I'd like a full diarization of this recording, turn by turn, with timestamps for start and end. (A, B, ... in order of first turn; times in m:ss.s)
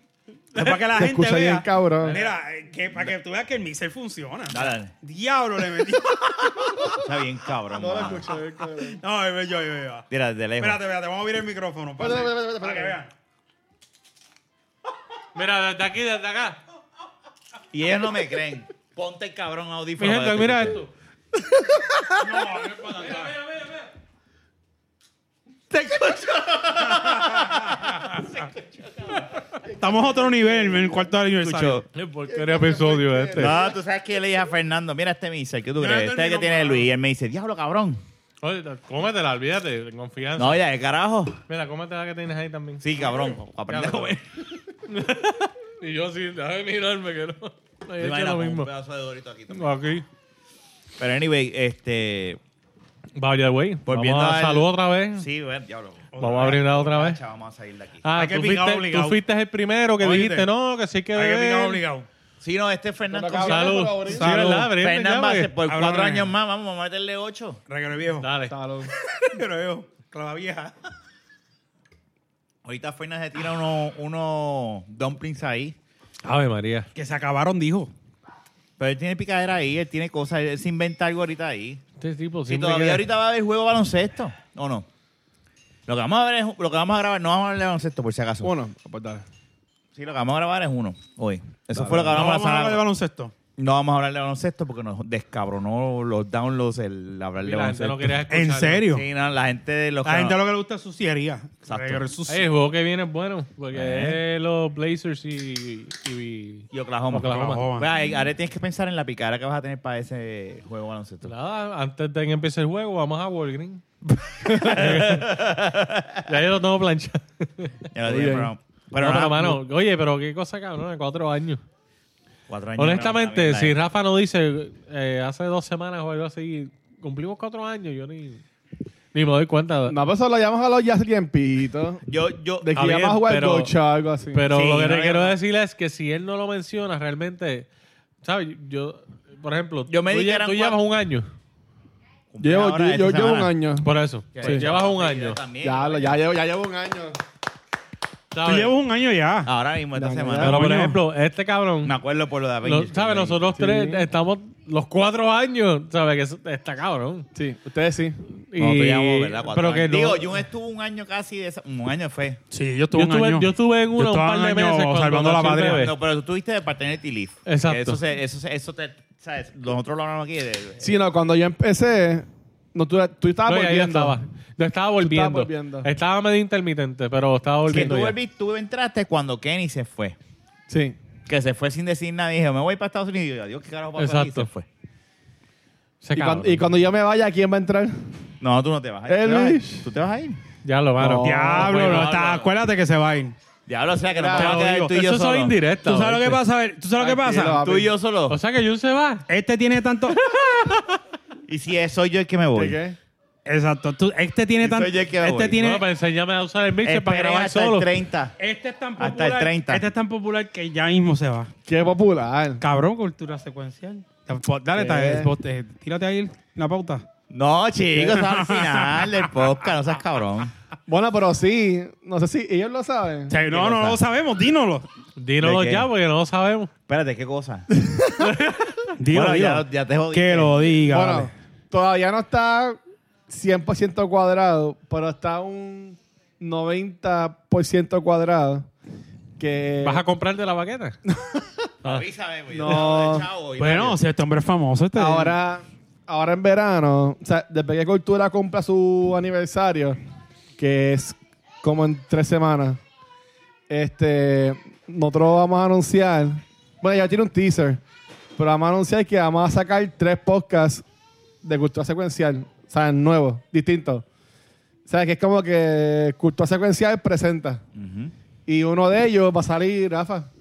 0:00.5-0:07.0 A
0:00.9-0:02.2 B
0:04.5-0:04.9 C
0:06.9-0:08.3 C
0:07.7-0:09.0 B
0:08.9-0:10.0 A
0:10.1-0:10.8 C
0:10.6-0:13.1 A
0:12.0-0:13.0 B
0:15.3-0:16.6 D
0:17.7-0:20.8 C
0:20.0-0:20.9 D
0:22.2-0:23.3 A
0:25.7-0:29.1 C
0:27.0-0:28.2 A
0:29.7-0:31.8 A
0:30.4-0:30.7 B
0:31.4-0:31.8 C
0:31.9-0:33.6 D
0:32.3-0:33.7 B
0:33.3-0:38.0 C
0:35.8-0:36.9 A
0:38.4-0:40.6 D
0:40.4-0:41.4 C
0:41.5-0:43.0 D
0:42.8-0:44.2 C
0:43.7-0:44.2 D
0:44.9-0:48.7 D
0:48.0-0:49.8 C
0:49.5-0:50.0 D
0:51.0-0:52.4 C
0:53.2-0:55.2 D
0:53.9-0:58.0 C
0:56.1-0:56.6 A
0:56.2-0:57.2 D
0:58.0-1:01.8 D
0:58.1-0:59.2 A
1:00.0-1:00.5 A
1:01.1-1:02.0 A
1:02.4-1:04.0 C
1:03.1-1:04.3 B
1:03.5-1:05.5 D
1:04.1-1:04.7 A
1:04.7-1:07.6 C
1:05.7-1:06.3 A
1:07.7-1:08.3 A
1:08.2-1:08.5 D
1:08.5-1:08.9 B
1:09.1-1:10.7 A
1:12.6-1:15.8 C
1:16.2-1:16.9 D
1:16.9-1:17.9 A
1:18.8-1:21.8 C
1:22.0-1:23.0 D
1:22.5-1:24.8 C
1:25.9-1:28.5 C
1:28.4-1:29.2 B
1:29.9-1:32.8 C
1:31.8-1:32.1 B
1:32.0-1:33.3 A
1:33.6-1:38.2 C
1:37.4-1:38.8 D
1:38.3-1:39.0 A
1:38.9-1:40.4 C
1:40.0-1:42.5 A
1:41.6-1:42.0 C
1:42.3-1:47.6 D
1:43.7-1:44.2 C
1:46.7-1:51.3 C
1:47.2-1:47.9 A
1:51.2-1:53.8 D
1:54.4-1:55.4 D
1:54.6-1:56.2 C
1:56.2-1:58.4 D
1:57.9-1:59.6 C
1:58.1-1:58.4 B
1:59.0-2:01.6 D
2:02.5-2:03.8 C
2:02.8-2:08.4 D
2:09.1-2:10.0 D
2:09.9-2:12.0 B
2:12.1-2:12.7 C
2:12.6-2:14.4 B
2:12.7-2:13.7 D
2:14.3-2:17.7 D
2:14.5-2:15.4 C
2:18.2-2:21.3 D
2:19.9-2:20.8 C
2:22.3-2:23.5 C
2:22.4-2:23.9 B
2:23.8-2:25.4 D
2:24.3-2:26.2 C
2:24.4-2:24.7 B
2:25.6-2:27.2 B
2:28.3-2:28.7 D
2:28.4-2:29.5 A
2:29.4-2:30.6 C
2:29.9-2:30.6 B
2:30.4-2:32.0 D
2:30.4-2:31.0 A
2:31.8-2:33.6 C
2:32.6-2:37.3 D
2:33.6-2:34.0 B
2:37.3-2:38.2 B
2:38.3-2:40.3 D
2:38.6-2:42.4 C
2:42.5-2:45.9 A
2:42.9-2:45.9 D
2:45.7-2:50.9 C
2:47.4-2:48.0 D
2:50.8-2:54.2 B
2:53.4-2:58.2 D
2:55.0-2:55.9 B
2:57.7-3:00.2 C
3:00.7-3:01.0 B
3:01.3-3:04.7 C
3:04.0-3:04.5 D
3:06.0-3:06.7 D
3:06.1-3:08.1 B
3:08.4-3:10.4 C
3:09.0-3:09.8 B
3:10.6-3:12.3 D
3:11.0-3:11.9 B
3:11.2-3:13.3 A
3:11.7-3:12.5 C
3:13.7-3:15.6 C
3:14.1-3:14.6 B
3:14.4-3:16.4 D
3:14.4-3:14.9 A
3:15.8-3:17.6 A
3:17.0-3:17.9 B
3:17.6-3:18.4 C
3:18.3-3:19.2 D
3:19.3-3:20.2 A
3:20.2-3:20.9 D
3:21.5-3:22.8 C
3:22.5-3:23.0 B
3:23.4-3:25.8 A
3:24.6-3:25.6 C
3:25.6-3:27.9 D
3:26.8-3:28.4 C
3:28.4-3:31.5 A
3:29.0-3:29.8 C
3:31.6-3:32.6 B
3:32.6-3:37.0 A
3:34.7-3:35.3 B
3:37.3-3:40.5 C
3:38.0-3:39.2 A
3:40.9-3:43.3 B
3:43.3-3:44.9 A
3:43.5-3:44.0 C
3:45.2-3:46.7 D
3:45.4-3:45.9 C
3:46.9-3:47.7 C
3:47.8-3:48.1 B
3:48.2-3:48.8 D
3:49.0-3:51.3 A
3:49.1-3:50.8 C
3:50.9-3:58.7 B
3:59.4-4:00.0 B
3:59.8-4:01.0 D
4:01.1-4:01.5 B
4:01.8-4:04.0 C
4:02.5-4:03.3 B
4:03.6-4:05.3 A
4:04.9-4:10.0 B
4:10.6-4:12.8 B
4:13.7-4:17.8 B
4:18.4-4:20.8 B
4:21.4-4:24.0 B
4:24.8-4:27.6 B
4:27.7-4:28.1 C
4:28.5-4:30.3 B